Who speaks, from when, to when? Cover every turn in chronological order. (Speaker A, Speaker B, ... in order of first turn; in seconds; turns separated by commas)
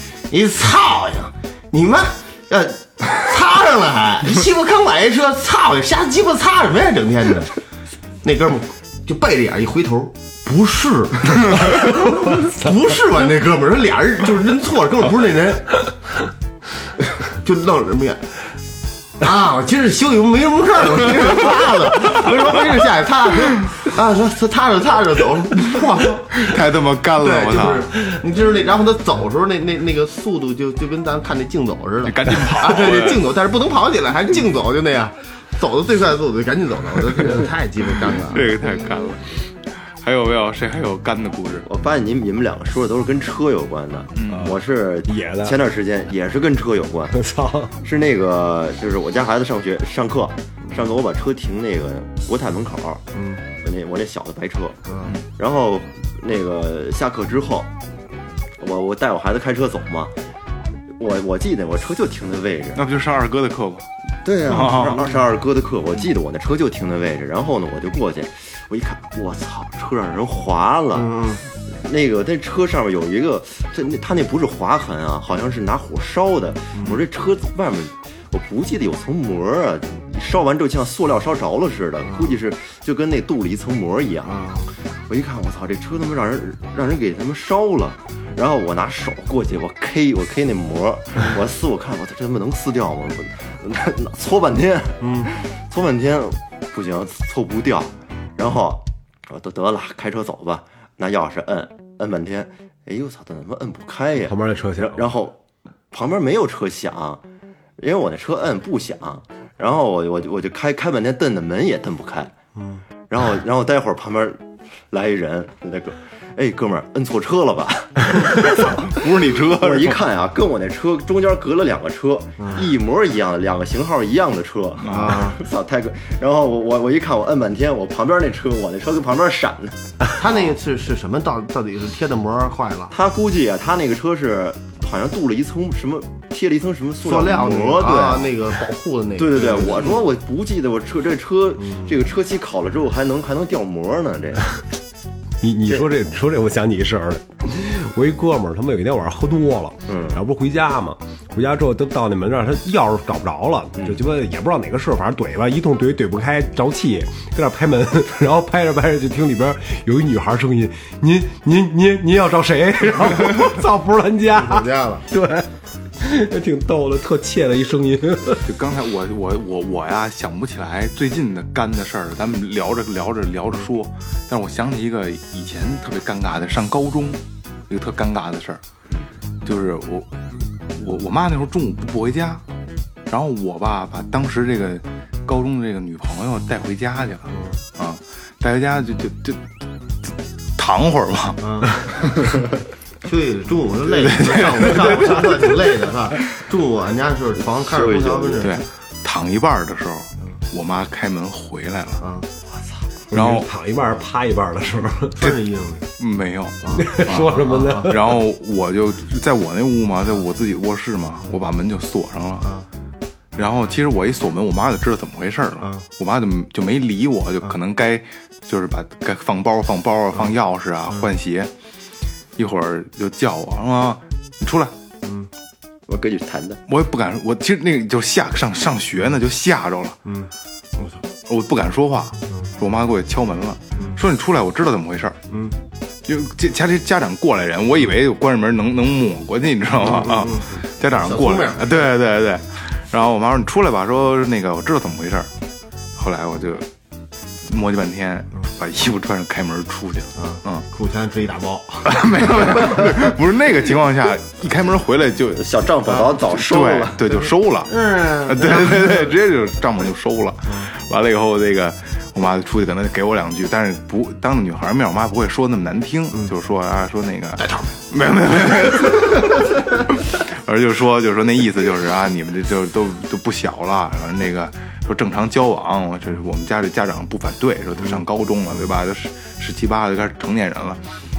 Speaker A: 0.3-7.5, Speaker A: 8.2-15.9, Speaker A: 17.3-18.2, Speaker A: 19.2-26.6, Speaker B: 26.3-27.9, Speaker A: 27.2-38.5, Speaker B: 32.0-33.3, Speaker B: 38.3-39.4, Speaker B: 40.0-41.6, Speaker C: 41.6-47.1, Speaker B: 44.1-44.5, Speaker D: 45.0-45.6, Speaker D: 47.1-47.8, Speaker C: 47.8-53.0, Speaker A: 53.1-53.4, Speaker C: 53.6-54.8, Speaker A: 54.9-55.1, Speaker C: 55.3-57.7, Speaker C: 58.6-60.1, Speaker C: 61.0-62.8, Speaker B: 62.8-63.9, Speaker C: 64.2-71.1, Speaker B: 64.5-65.1, Speaker A: 64.5-65.2, Speaker A: 70.9-71.4, Speaker C: 71.7-84.4, Speaker A: 76.7-77.0, Speaker A: 82.1-82.3, Speaker A: 84.2-84.7, Speaker C: 85.1-105.4, Speaker A: 95.0-95.3, Speaker D: 104.2-105.1, Speaker C: 105.9-107.2, Speaker C: 107.8-112.3, Speaker C: 113.1-130.4, Speaker B: 118.5-120.0, Speaker B: 124.8-125.2, Speaker A: 124.9-125.4, Speaker A: 130.2-132.9, Speaker C: 132.9-138.4, Speaker A: 137.0-140.0, Speaker C: 139.2-144.5, Speaker D: 145.4-165.5, Speaker C: 149.9-150.2, Speaker A: 164.3-165.0, Speaker D: 166.0-168.4, Speaker B: 168.4-178.6, Speaker B: 179.4-180.1, Speaker B: 180.7-182.4, Speaker B: 183.1-189.4, Speaker A: 187.3-187.6, Speaker B: 190.6-192.4, Speaker A: 191.4-191.9, Speaker A: 193.0-198.6, Speaker B: 193.9-195.6, Speaker C: 197.6-198.6, Speaker B: 198.4-202.0, Speaker A: 202.0-202.3, Speaker D: 203.1-205.2, Speaker B: 203.1-203.5, Speaker A: 205.2-205.9, Speaker B: 206.0-212.5, Speaker A: 206.6-207.9, Speaker D: 206.7-208.2, Speaker B: 213.3-221.5, Speaker B: 222.4-224.7, Speaker A: 225.0-225.3, Speaker C: 225.9-226.6, Speaker B: 226.7-230.0, Speaker A: 230.0-231.0, Speaker B: 231.3-235.2, Speaker A: 235.3-235.5, Speaker B: 236.1-245.3, Speaker A: 239.8-241.9, Speaker B: 246.0-246.7, Speaker B: 247.5-250.6, Speaker A: 250.2-252.7, Speaker B: 251.8-255.5, Speaker C: 255.3-257.1, Speaker B: 256.2-280.8, Speaker A: 257.1-259.1, Speaker A: 267.4-267.7